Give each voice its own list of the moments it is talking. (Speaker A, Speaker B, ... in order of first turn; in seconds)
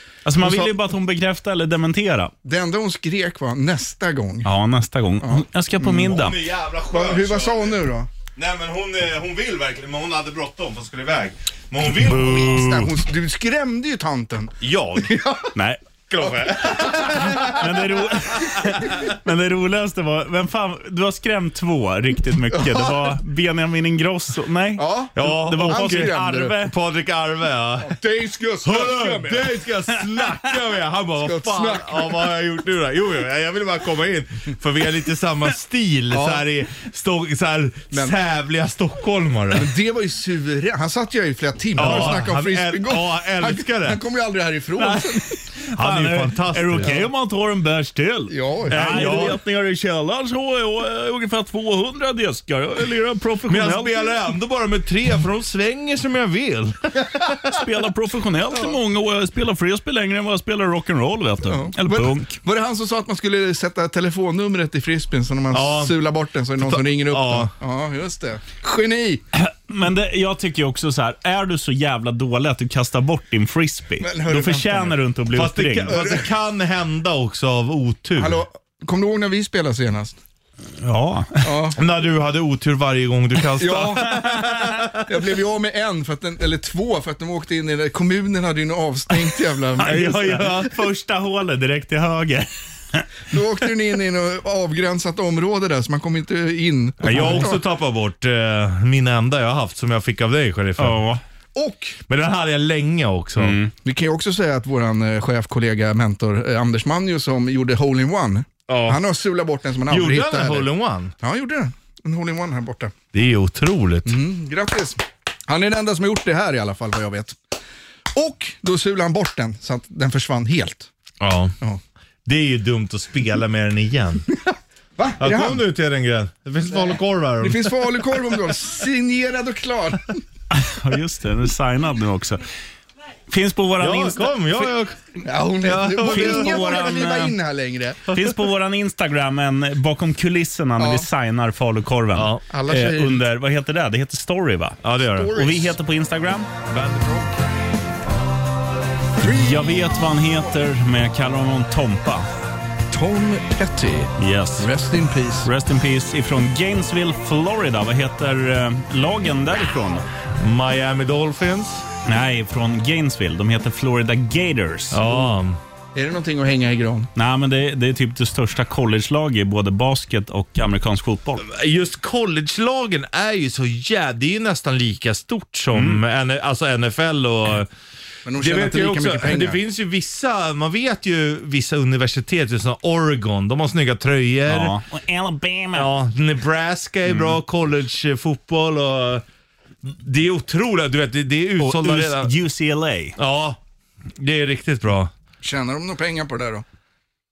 Speaker A: 0.2-2.3, 4.4-6.4, 12.1-12.9, 15.5-15.8, 17.4-26.7, 44.8-45.0, 45.6-54.1, 57.5-62.4, 69.3-75.9, 80.8-81.5, 89.8-93.0, 97.1-97.5, 100.8-101.2, 103.4-103.7, 130.5-132.4, 133.3-134.7, 136.0-137.4, 138.1-146.5, 149.2-152.3, 154.2-154.7, 155.4-160.0, 162.1-165.0, 167.2-171.4, 175.7-176.0, 184.5-185.9, 187.1-187.4, 191.6-193.2
Speaker B: 0.4-0.7, 2.4-4.5, 5.2-6.2, 6.9-8.1, 12.1-15.5, 16.2-17.5, 22.5-23.0, 24.8-26.6, 27.8-29.6, 31.2-32.2, 36.1-36.4, 39.5-45.3, 46.8-47.1, 48.3-49.4, 61.5-69.2, 74.0-75.0, 75.9-76.3, 78.2-80.2, 81.4-81.8, 83.6-90.6, 93.3-97.6, 101.5-102.0, 103.8-110.7, 111.2-112.9, 114.0-117.4, 118.1-120.9, 125.0-125.6, 126.7-130.2, 135.2-138.1, 140.8-141.1, 142.5-143.2, 149.2-149.6, 152.9-155.5, 165.9-167.1, 178.2-179.6, 195.4-196.6
Speaker C: 6.0-7.8, 8.3-12.7, 14.6-15.1, 16.1-17.7, 25.1-28.0, 28.6-39.7, 41.8-44.0, 45.7-47.0, 48.7-49.4, 53.5-57.4, 65.5-65.9, 66.6-67.5, 75.3-78.4, 81.8-85.0, 89.9-90.7, 97.0-101.0, 102.1-103.6, 108.7-109.0, 109.9-111.1, 113.1-114.2, 121.2-121.5, 122.2-124.2, 125.2-127.8, 133.8-135.0, 135.6-136.9, 142.1-142.4, 144.8-145.7, 146.7-147.3, 160.4-161.8, 164.9-165.6, 171.4-177.7, 178.3-184.7, 185.7-189.2, 189.8-192.3, 193.2-193.6, 194.2-195.1